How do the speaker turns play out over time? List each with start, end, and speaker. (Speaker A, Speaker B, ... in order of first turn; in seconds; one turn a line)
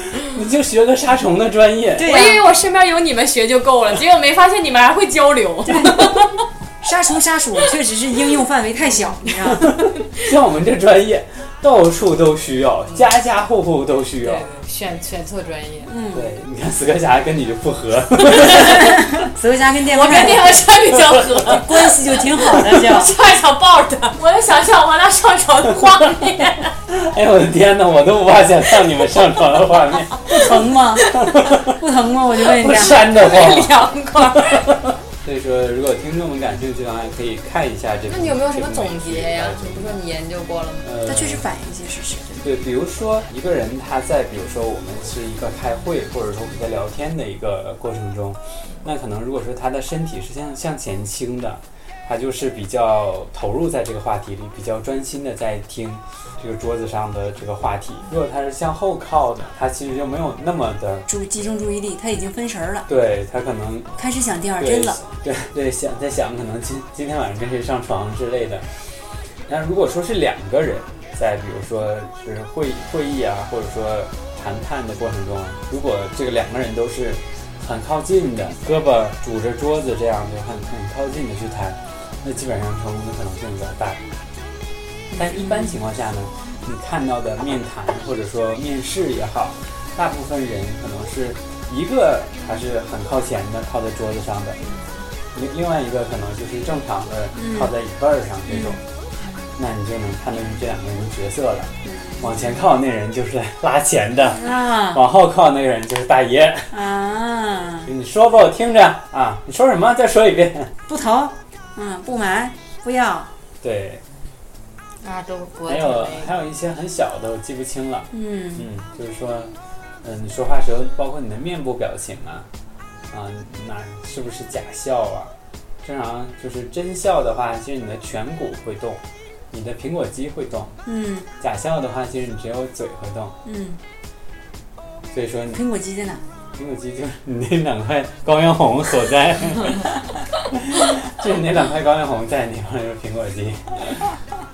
Speaker A: 0.1-2.1
Speaker B: 2.0-2.5
Speaker C: 2.0-6.5
Speaker B: 5.7-6.2
Speaker B: 6.8-9.7
Speaker C: 9.6-10.2
Speaker A: 9.7-14.4
Speaker C: 14.2-16.0
Speaker B: 15.9-16.3
Speaker A: 16.1-19.0
Speaker C: 18.3-18.9
Speaker B: 18.6-20.6
Speaker C: 19.9-22.0
Speaker B: 21.4-23.1
Speaker A: 22.4-22.9
Speaker C: 22.6-26.7
Speaker A: 26.9-31.8
Speaker B: 30.2-33.0
Speaker A: 32.5-33.8
Speaker C: 32.9-34.7
Speaker A: 34.5-40.0
Speaker C: 38.1-40.9
Speaker A: 40.8-41.4
Speaker B: 41.0-42.5
Speaker A: 42.4-61.1
Speaker B: 61.1-62.9
Speaker A: 62.9-64.0
Speaker B: 64.0-65.0
Speaker A: 64.6-68.7
Speaker A: 69.5-84.0
Speaker B: 85.1-85.8
Speaker A: 85.2-94.6
Speaker C: 94.7-95.0
Speaker A: 95.3-98.8
Speaker B: 97.3-97.7
Speaker B: 98.5-98.8
Speaker C: 99.2-99.5
Speaker A: 99.6-106.8
Speaker B: 101.8-102.3
Speaker B: 104.3-105.0
Speaker B: 106.7-107.9
Speaker A: 107.9-110.7
Speaker B: 110.9-113.3
Speaker A: 113.6-114.0
Speaker C: 115.0-116.3
Speaker A: 115.7-119.5
Speaker B: 118.1-118.7
Speaker A: 120.0-122.5
Speaker A: 123.1-125.3
Speaker A: 125.8-130.7
Speaker B: 130.9-131.3
Speaker A: 131.4-133.3
Speaker B: 133.4-133.8
Speaker A: 135.1-135.6
Speaker B: 135.5-136.2
Speaker A: 136.6-144.0